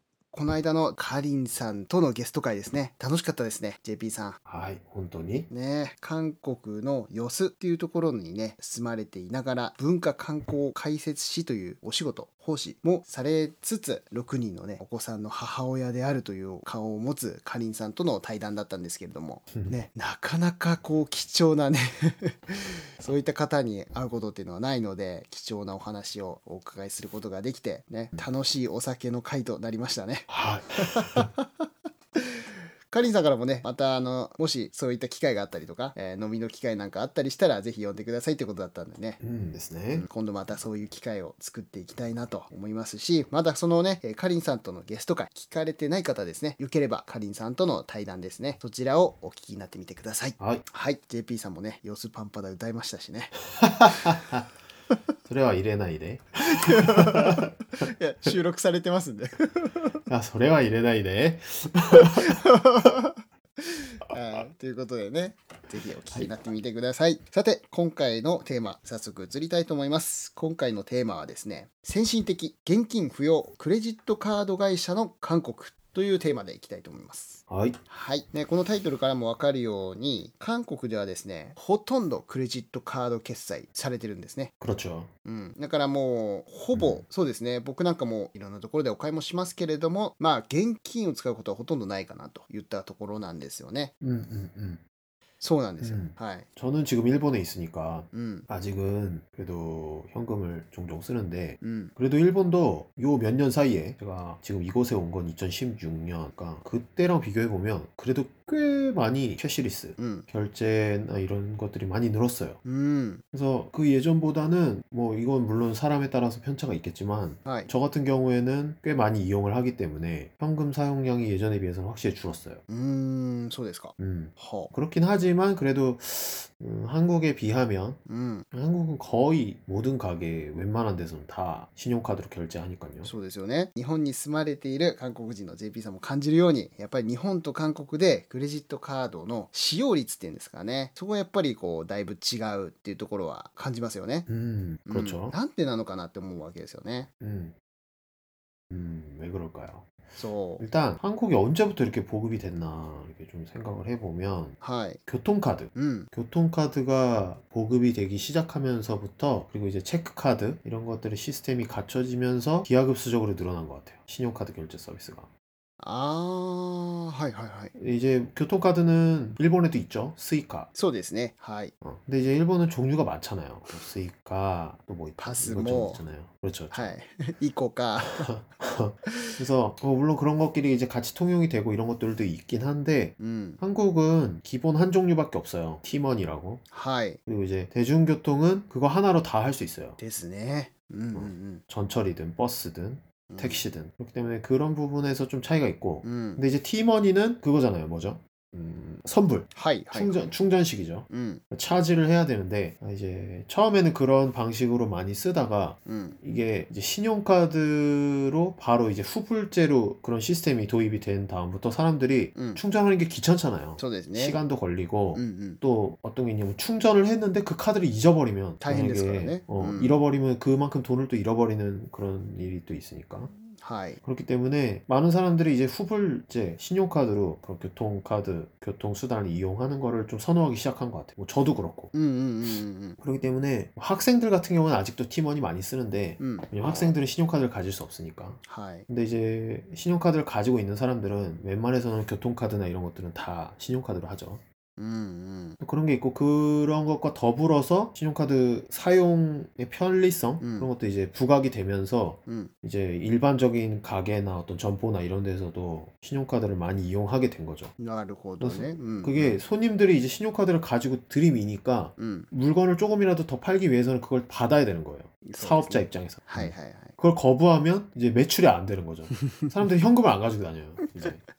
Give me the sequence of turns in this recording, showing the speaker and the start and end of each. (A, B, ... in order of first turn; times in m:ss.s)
0:00.3-0:04.4 A
0:04.4-0:05.5 B
0:05.5-0:30.3 A
0:30.3-0:31.3 B
0:30.8-0:31.4 A
0:32.1-0:39.2 A
0:39.2-0:40.1 B
0:39.9-0:53.4 A
0:50.4-0:50.6 B
0:53.6-0:54.4 B
0:55.2-0:57.5 B
0:56.5-0:59.8 A
1:00.1-1:02.3 B
1:02.0-1:24.5 A
1:17.5-1:17.8 B
1:24.6-1:25.1 B
1:25.2-1:33.9 A
1:26.7-1:27.0 B
1:34.0-1:34.8 B
1:35.4-1:36.5 A
1:35.8-1:52.6 B
1:38.1-1:38.5 A
1:41.6-1:41.9 A
1:50.0-1:50.3 A
1:52.6-1:53.2 A
1:53.3-2:02.6 B
1:57.4-1:57.7 A
2:02.7-2:04.7 A
2:04.0-2:08.0 B
2:08.0-2:08.5 A
2:08.5-2:13.1 B
2:13.0-2:24.3 A
2:24.3-2:25.3 B
2:24.9-2:27.1 A
2:27.2-2:27.5 B
2:28.7-2:29.9 B
2:30.2-2:30.6 A
2:30.6-2:34.6 B
2:34.6-2:35.0 A
2:35.1-2:45.3 B
2:35.7-2:36.1 A
2:45.8-2:47.7 A
2:47.8-2:50.7 B
2:50.7-2:51.7 A
2:51.8-2:56.9 B
2:55.2-2:56.0 A
2:56.7-2:58.3 A
2:58.2-3:06.6 B
2:59.1-2:59.3 A
3:03.2-3:03.6 A
3:06.7-3:07.2 A
3:07.3-3:10.0 B
3:10.0-3:11.6 A
3:11.1-3:43.3 B
3:13.3-3:13.6 A
3:16.0-3:16.4 A
3:19.5-3:20.3 A
3:21.1-3:21.4 A
3:25.8-3:26.2 A
3:32.3-3:32.6 A
3:33.8-3:34.4 A
3:35.1-3:35.6 A
3:38.6-3:40.0 A
3:43.3-3:44.0 A
3:44.0-3:51.9 B
3:51.9-3:53.0 A
3:53.0-4:04.4 B
3:56.2-3:56.5 A
3:58.4-3:58.9 A
4:04.8-4:05.6 A
4:05.6-4:17.7 B
4:10.4-4:10.7 A
4:12.3-4:12.5 A
4:17.8-4:19.4 A
4:18.4-4:31.2 B
4:22.0-4:22.3 A
4:25.2-4:27.0 A